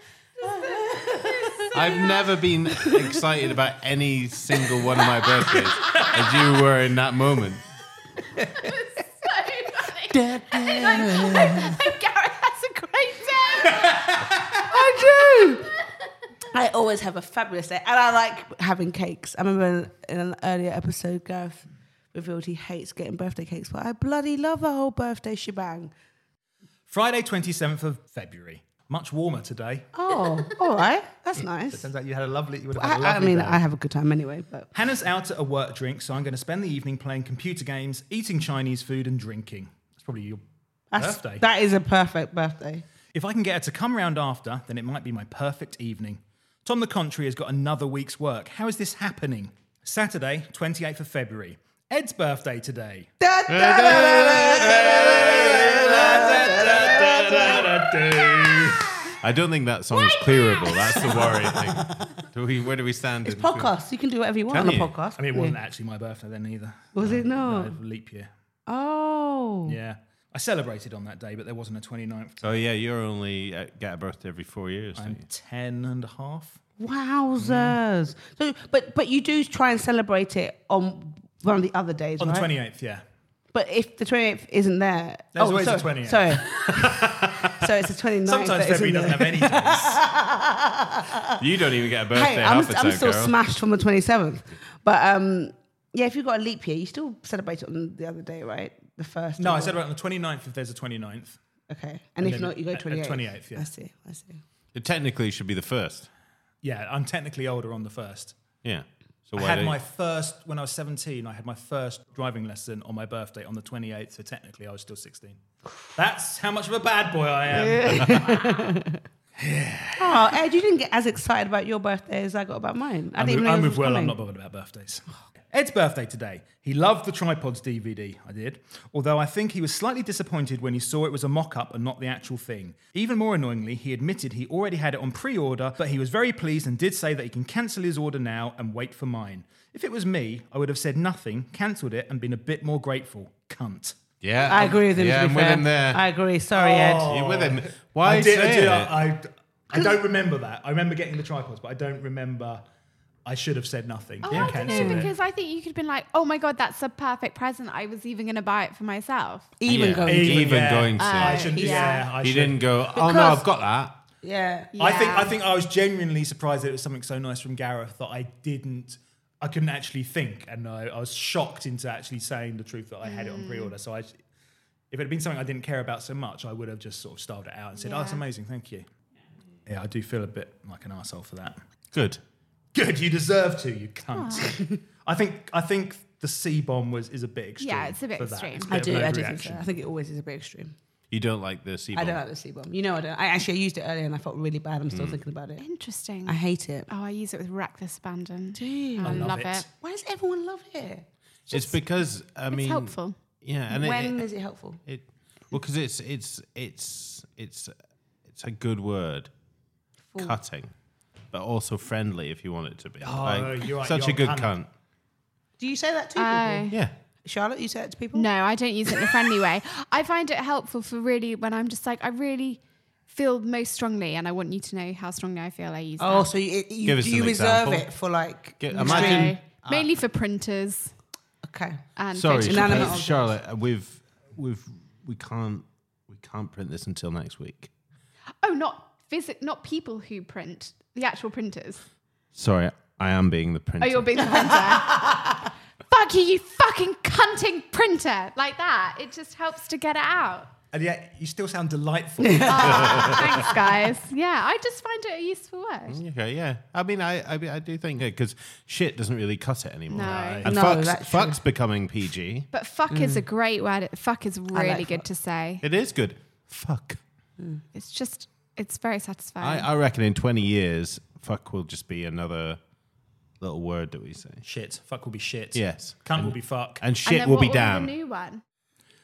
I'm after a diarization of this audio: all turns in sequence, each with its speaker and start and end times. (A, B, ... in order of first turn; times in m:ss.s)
0:00.5-0:01.6 A
0:00.6-0:01.9 B
0:01.7-0:07.6 C
0:08.4-0:14.1 B
0:10.1-0:11.5 C
0:10.7-0:11.8 A
0:13.8-0:14.4 D
0:14.6-0:15.7 A
0:14.7-0:15.9 B
0:16.5-0:25.9 A
0:26.9-0:29.9 D
0:29.9-0:31.8 A
0:31.7-0:33.6 D
0:32.7-0:34.7 A
0:34.7-0:40.4 D
0:40.9-0:42.8 A
0:40.9-0:41.4 D
0:43.1-0:53.1 D
0:53.2-0:57.9 A
0:53.5-0:56.5 C
0:54.4-0:59.1 D
0:59.1-1:03.7 C
0:59.9-1:01.4 B
1:01.2-1:02.1 A
1:03.2-1:05.6 A
1:04.5-1:08.3 D
1:04.5-1:04.9 C
1:06.9-1:07.8 A
1:08.7-1:09.8 A
1:09.6-1:12.5 D
1:12.4-1:15.2 C
1:15.0-1:16.6 D
1:16.8-1:22.5 A
1:17.4-1:17.8 D
1:22.2-1:23.0 D
1:23.5-1:31.3 A
1:25.3-1:27.6 D
1:28.2-1:30.0 D
1:31.4-1:33.4 C
1:32.1-1:39.8 A
1:39.4-1:41.4 D
1:41.7-1:44.4 A
1:42.2-1:43.7 D
1:44.7-1:46.1 C
1:46.6-1:48.4 D
1:48.6-1:49.8 C
1:49.3-1:55.4 D
1:55.9-1:58.5 D
1:57.5-1:59.0 A
1:57.7-1:58.2 C
1:59.4-2:00.4 D
2:00.0-2:04.2 A
2:03.2-2:24.0 D
2:24.2-2:26.0 C
2:24.4-2:27.1 A
2:26.5-2:32.6 D
2:27.0-2:28.9 C
2:29.7-2:30.0 A
2:33.2-2:35.1 D
2:34.2-2:39.5 B
2:34.3-2:35.0 A
2:39.6-2:40.8 A
2:39.7-2:44.0 C
2:40.0-2:42.8 D
2:41.0-2:42.0 B
2:41.6-2:42.0 A
2:42.9-2:43.4 A
2:44.2-2:44.7 A
2:44.7-2:45.3 B
2:44.8-2:54.2 D
2:53.0-2:53.7 B
2:54.9-2:58.8 D
2:57.8-2:58.2 B
2:59.6-3:01.6 D
3:01.9-3:02.2 C
3:02.7-3:09.7 D
3:04.1-3:04.5 B
3:07.6-3:08.8 B
3:08.7-3:10.7 A
3:11.1-3:12.2 C
3:11.9-3:15.6 A
3:14.9-3:15.2 C
3:15.6-3:19.7 B
3:16.2-3:16.9 A
3:18.6-3:21.0 A
3:19.0-3:19.6 D
3:21.5-3:24.3 C
3:21.5-3:21.8 B
3:22.5-3:23.2 B
3:23.7-3:24.8 A
3:24.8-3:27.7 C
3:28.3-3:29.3 C
3:30.2-3:30.7 C
3:31.3-3:34.7 C
3:33.0-3:34.5 D
3:35.6-3:38.3 A
3:36.2-3:36.8 B
3:38.1-3:46.3 B
3:46.0-3:49.4 A
3:46.8-3:47.9 C
3:48.6-3:49.9 C
3:48.7-3:50.9 B
3:51.4-3:51.8 A
3:52.0-3:53.0 B
3:52.1-3:57.7 C
3:52.4-3:53.3 A
3:58.4-4:01.8 B
4:02.3-4:04.5 C
4:03.8-4:05.1 B
4:04.3-4:05.4 A
4:05.9-4:10.5 B
4:10.7-4:13.5 D
4:12.2-4:13.2 A
4:12.4-4:16.0 B
4:12.8-4:13.2 C
4:15.9-4:22.5 C
4:19.9-4:20.5 B
4:20.0-4:20.5 D
4:20.4-4:21.4 A
4:22.5-4:25.6 B
4:22.9-4:23.2 A
4:24.5-4:25.0 A
4:25.6-4:27.0 C
4:27.7-4:29.7 B
4:29.4-4:32.6 C
4:33.4-4:34.4 C
4:34.4-4:36.8 D
4:35.5-4:37.9 C
4:37.0-4:38.4 B